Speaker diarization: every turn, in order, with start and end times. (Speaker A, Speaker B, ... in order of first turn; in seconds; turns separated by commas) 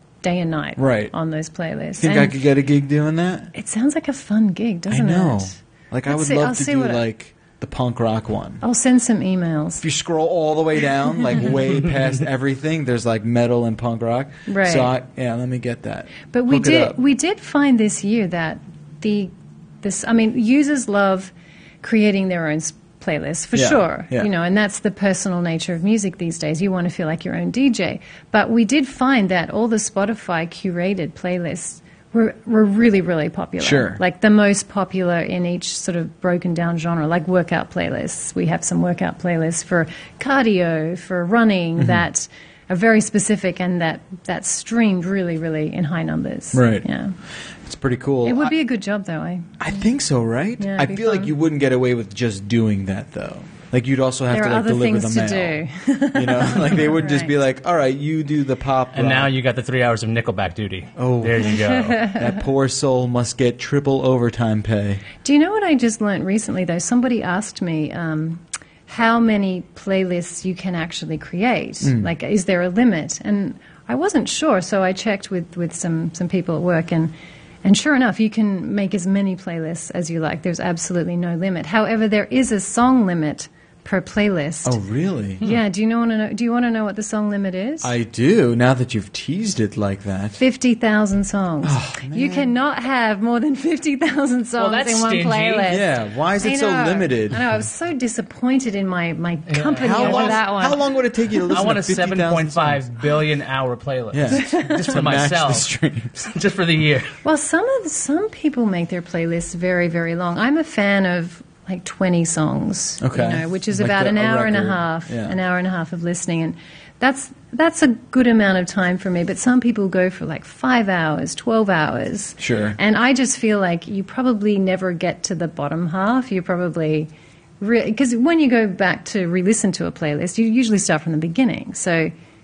Speaker A: 0.2-2.4, Speaker B: 0.8-1.1, Speaker B: 2.0-3.5, Speaker A: 3.5-5.6, Speaker B: 4.9-8.6, Speaker A: 6.1-7.0, Speaker A: 8.6-9.8, Speaker B: 9.8-17.0, Speaker A: 14.5-14.9, Speaker A: 16.3-47.1, Speaker B: 23.5-24.3, Speaker B: 33.6-34.0, Speaker B: 41.8-42.0, Speaker B: 46.5-46.9, Speaker B: 47.7-48.6, Speaker A: 48.2-49.6, Speaker B: 49.6-55.6, Speaker A: 50.6-51.3, Speaker A: 54.3-57.3, Speaker B: 56.1-59.3, Speaker C: 58.9-62.1, Speaker B: 61.0-61.6, Speaker A: 61.6-62.3, Speaker B: 62.1-65.0, Speaker A: 65.2-77.1, Speaker B: 71.8-72.1, Speaker A: 77.6-84.8, Speaker B: 84.7-85.4, Speaker A: 85.4-87.9, Speaker B: 87.8-90.4, Speaker A: 90.4-95.9, Speaker B: 91.6-92.5, Speaker C: 94.6-95.8, Speaker B: 95.7-97.5, Speaker A: 96.4-100.8, Speaker C: 99.5-100.5, Speaker B: 99.8-102.8, Speaker C: 101.5-107.1, Speaker B: 104.1-106.2, Speaker A: 104.3-105.0, Speaker A: 107.2-132.1, Speaker B: 113.0-115.4, Speaker B: 122.4-122.8